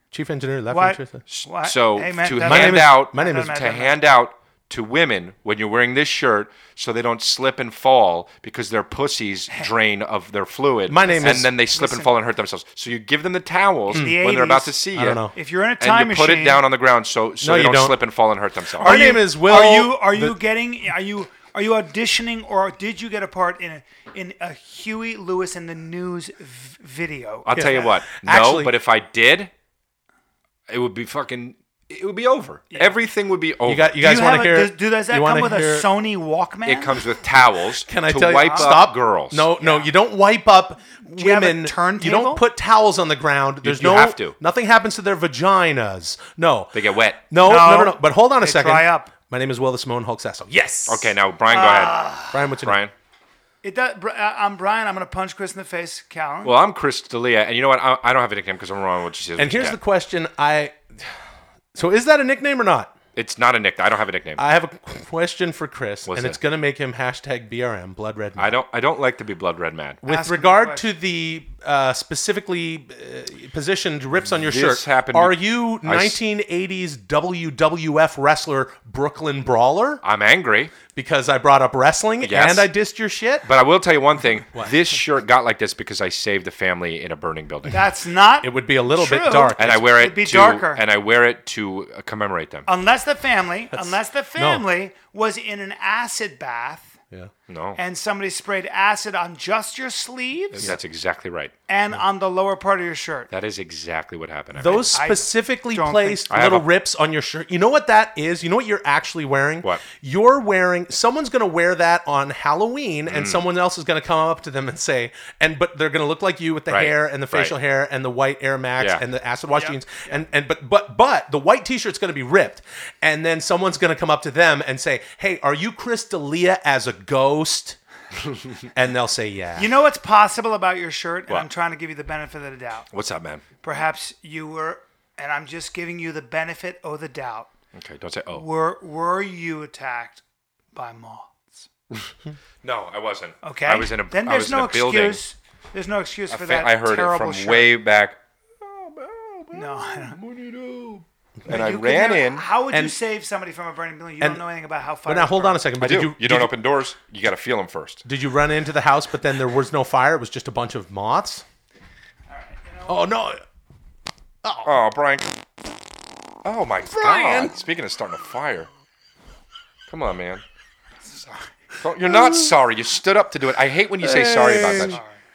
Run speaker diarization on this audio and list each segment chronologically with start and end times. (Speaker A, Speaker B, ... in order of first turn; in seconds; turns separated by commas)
Speaker A: 0.1-1.2, Speaker B: 0.7-4.0, Speaker C: 1.3-15.2, Speaker A: 2.4-3.5, Speaker A: 10.9-11.5, Speaker B: 11.0-12.1, Speaker B: 13.9-14.8, Speaker A: 14.9-15.3, Speaker B: 15.3-16.6, Speaker C: 15.8-19.0, Speaker A: 17.4-18.0, Speaker B: 18.7-27.9, Speaker A: 18.8-20.4, Speaker C: 27.4-29.5, Speaker A: 27.5-28.7, Speaker C: 30.7-33.9, Speaker B: 32.7-33.0, Speaker A: 33.6-35.9, Speaker B: 34.0-37.0, Speaker C: 36.6-39.5, Speaker A: 37.8-46.8, Speaker B: 38.2-38.8, Speaker B: 39.6-39.9, Speaker B: 41.0-42.4, Speaker C: 43.6-44.4, Speaker C: 46.7-47.2, Speaker A: 47.3-51.1, Speaker B: 47.4-49.1, Speaker C: 50.9-52.1, Speaker B: 51.5-52.4, Speaker A: 52.3-52.8, Speaker C: 52.6-52.9, Speaker B: 53.6-56.5, Speaker C: 56.4-59.8, Speaker A: 59.4-60.8, Speaker A: 61.7-62.9, Speaker C: 63.1-64.4, Speaker A: 64.4-68.5, Speaker C: 66.1-66.4, Speaker C: 68.3-70.0, Speaker A: 70.0-80.0, Speaker B: 70.0-70.9, Speaker C: 74.3-76.2, Speaker C: 80.0-80.7, Speaker A: 80.9-83.5, Speaker C: 82.2-82.7, Speaker C: 83.4-87.8, Speaker B: 87.7-90.8, Speaker A: 88.4-89.9, Speaker C: 89.5-92.7, Speaker B: 92.7-97.0, Speaker A: 93.7-94.6, Speaker C: 97.5-97.8, Speaker B: 97.8-100.8, Speaker C: 100.5-101.5, Speaker B: 101.7-103.3, Speaker C: 103.3-104.8, Speaker A: 104.5-127.8, Speaker B: 104.6-106.3, Speaker C: 106.3-106.7, Speaker C: 113.1-113.4, Speaker C: 116.7-117.5, Speaker B: 119.5-120.2, Speaker A: 128.7-129.7, Speaker B: 129.6-132.9, Speaker C: 132.9-133.4, Speaker B: 133.6-137.5, Speaker C: 137.7-138.4, Speaker B: 138.3-140.2, Speaker B: 140.7-141.7, Speaker C: 142.6-145.2, Speaker B: 143.4-147.8, Speaker C: 146.3-152.4, Speaker B: 149.5-150.2, Speaker B: 151.5-155.6, Speaker A: 155.0-156.5, Speaker C: 155.8-158.0, Speaker A: 158.0-161.4, Speaker B: 162.3-163.1, Speaker A: 162.9-163.4, Speaker A: 164.4-164.7, Speaker C: 164.6-165.3, Speaker C: 166.4-168.7, Speaker A: 166.9-167.6, Speaker C: 169.9-170.4, Speaker B: 171.1-171.4, Speaker C: 171.8-175.0, Speaker A: 172.0-172.5, Speaker A: 174.0-175.0, Speaker B: 174.6-175.2